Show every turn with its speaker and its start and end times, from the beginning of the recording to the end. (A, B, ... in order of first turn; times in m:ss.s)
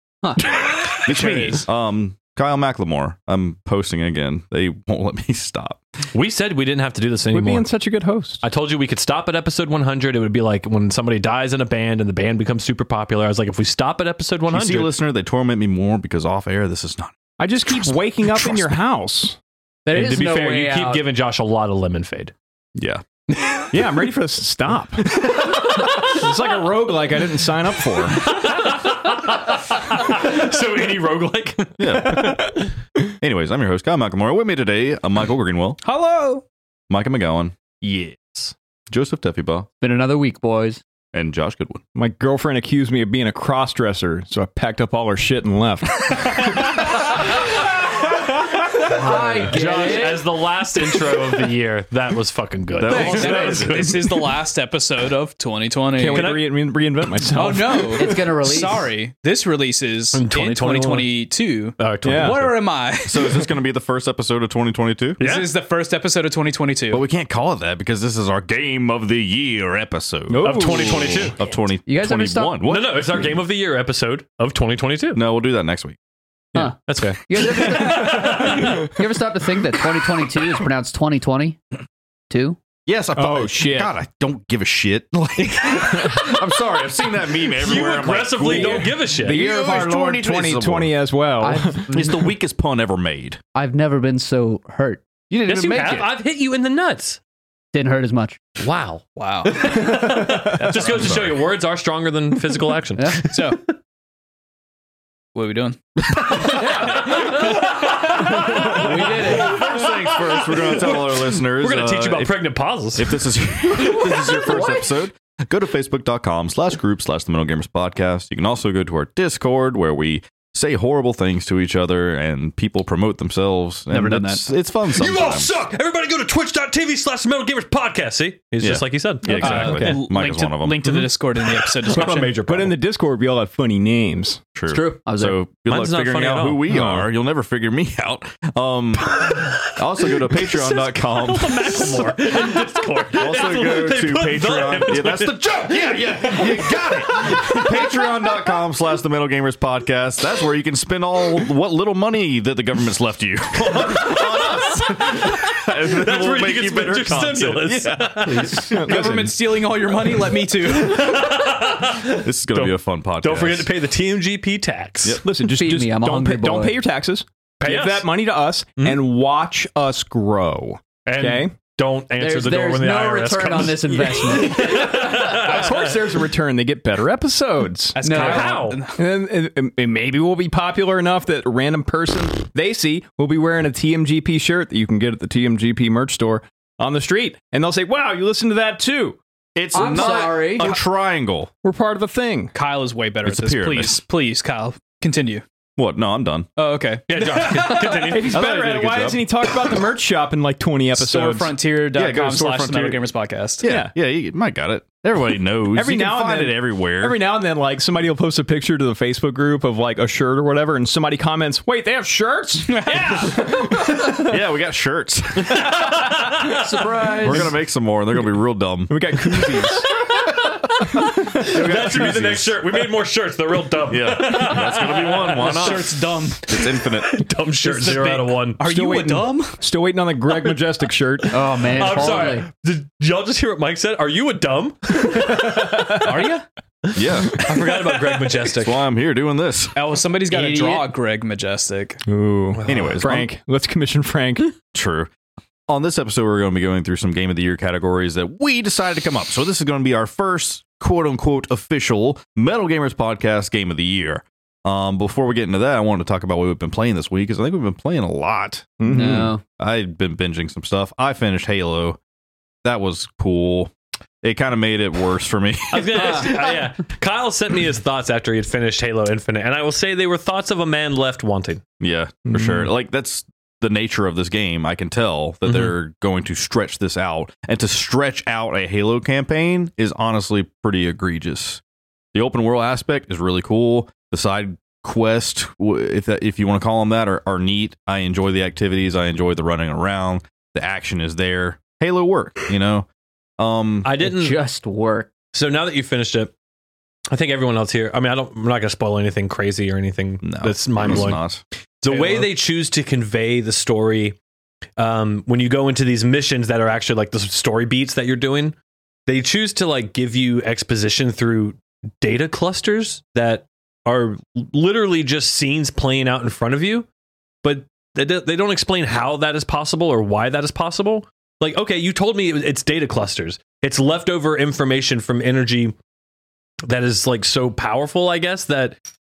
0:00.5-0:05.8 A
0:00.6-0:01.7 B
0:06.1-0:07.7 B
0:07.3-0:08.4 C
0:08.4-0:14.9 B
0:14.5-0:18.7 A
0:17.4-0:19.4 C
0:19.8-0:21.0 D
0:19.9-0:22.3 B
0:22.8-0:23.0 A
0:23.4-0:23.7 B
0:23.7-0:28.3 C
0:25.1-0:26.2 B
0:28.2-0:32.6 B
0:31.8-0:32.6 A
0:33.2-0:35.8 A
0:35.8-0:36.4 E
0:36.9-0:37.6 A
0:37.8-0:38.5 B
0:38.9-0:39.7 A
0:39.8-0:40.8 D
0:41.1-0:41.8 A
0:41.9-0:46.6 C
0:48.2-0:54.3 B
0:48.9-0:50.2 D
0:52.8-0:53.9 A
0:52.8-0:56.4 E
0:55.9-0:58.3 C
0:56.1-0:56.5 B
0:57.3-1:03.5 E
0:57.9-0:58.9 D
1:00.1-1:01.1 B
1:01.8-1:02.5 B
1:02.0-1:02.5 C
1:03.0-1:05.2 A
1:05.2-1:05.5 B
1:05.2-1:07.0 E
1:06.9-1:13.4 A
1:10.3-1:11.3 C
1:10.4-1:11.4 B
1:11.8-1:12.7 D
1:12.6-1:15.2 B
1:15.1-1:16.0 A
1:16.6-1:21.6 D
1:16.8-1:18.9 B
1:22.3-1:22.6 D
1:22.8-1:31.0 A
1:23.1-1:23.9 C
1:25.8-1:26.4 B
1:27.4-1:29.4 B
1:28.4-1:31.9 C
1:31.4-1:32.3 D
1:31.9-1:33.4 A
1:33.5-1:35.1 D
1:35.3-1:36.0 A
1:35.5-1:37.2 B
1:37.7-1:38.4 D
1:38.6-1:43.7 B
1:39.2-1:39.5 E
1:40.0-1:40.5 C
1:40.7-1:41.4 A
1:43.0-1:43.3 D
1:43.2-1:43.6 E
1:45.3-1:46.5 E
1:46.3-1:53.2 B
1:48.3-1:49.6 D
1:48.6-2:05.5 A
1:53.9-1:54.8 D
2:03.9-2:04.4 C
2:04.0-2:04.3 D
2:04.8-2:10.0 B
2:08.6-2:10.8 A
2:09.3-2:12.3 E
2:11.8-2:14.4 C
2:11.8-2:12.8 B
2:14.6-2:22.3 A
2:14.7-2:15.4 D
2:15.6-2:16.7 B
2:16.7-2:17.1 C
2:19.0-2:28.3 B
2:23.1-2:38.1 A
2:33.5-2:38.7 B
2:38.2-2:38.8 D
2:38.5-2:39.4 C
2:38.7-2:41.2 E
2:38.9-2:39.2 A
2:40.7-2:45.2 B
2:42.2-2:43.7 A
2:45.0-2:45.4 A
2:45.2-2:51.5 C
2:45.5-2:46.8 D
2:47.6-2:48.1 B
2:48.8-2:49.0 B
2:51.0-2:56.0 B
2:52.2-2:55.0 D
2:54.6-2:58.1 C
2:57.9-2:59.0 E
2:58.0-2:58.6 D
2:58.1-2:58.8 B
2:59.0-3:09.2 C
3:09.6-3:11.5 A
3:09.7-3:10.8 D
3:09.7-3:10.8 C
3:11.6-3:12.5 C
3:12.5-3:15.4 E
3:13.2-3:14.0 A
3:15.8-3:16.5 A
3:16.6-3:18.0 E
3:17.1-3:18.9 B
3:17.7-3:21.5 C
3:18.8-3:19.2 A
3:21.0-3:23.6 E
3:21.9-3:23.0 A
3:23.6-3:27.2 A
3:23.6-3:23.9 C
3:25.7-3:34.3 C
3:32.7-3:33.6 E
3:34.0-3:35.8 A
3:35.5-3:36.9 B
3:36.6-3:37.5 D
3:37.1-3:39.0 A
3:37.2-3:37.5 C
3:38.9-3:39.9 C
3:39.9-3:48.6 B
3:41.4-3:42.6 A
3:43.9-3:47.2 A
3:45.2-3:46.5 E
3:47.6-3:49.6 E
3:48.6-3:52.2 C
3:51.3-3:52.5 D
3:51.7-3:58.8 B
3:55.1-3:56.0 C
3:55.9-3:56.4 E
3:56.9-3:59.8 A
3:59.7-4:02.0 E
4:00.3-4:00.8 D
4:02.0-4:04.5 C
4:02.6-4:03.0 B
4:02.6-4:03.3 A
4:04.7-4:05.1 A
4:05.7-4:18.9 A
4:18.8-4:19.3 C
4:18.8-4:19.4 D
4:19.5-4:22.0 A
4:22.6-4:26.7 A
4:25.7-4:31.6 B
4:31.8-4:41.6 A
4:32.3-4:32.7 C
4:35.4-4:35.7 B
4:42.1-4:52.9 A
4:53.4-4:53.9 A
4:53.8-4:54.4 B
4:54.0-4:55.1 D
4:55.3-4:56.3 B
4:57.1-5:01.2 B
5:00.2-5:01.4 A
5:01.8-5:04.2 B
5:01.8-5:02.3 E
5:04.8-5:08.5 B
5:09.1-5:16.8 B
5:17.4-5:25.7 B
5:26.6-5:28.8 B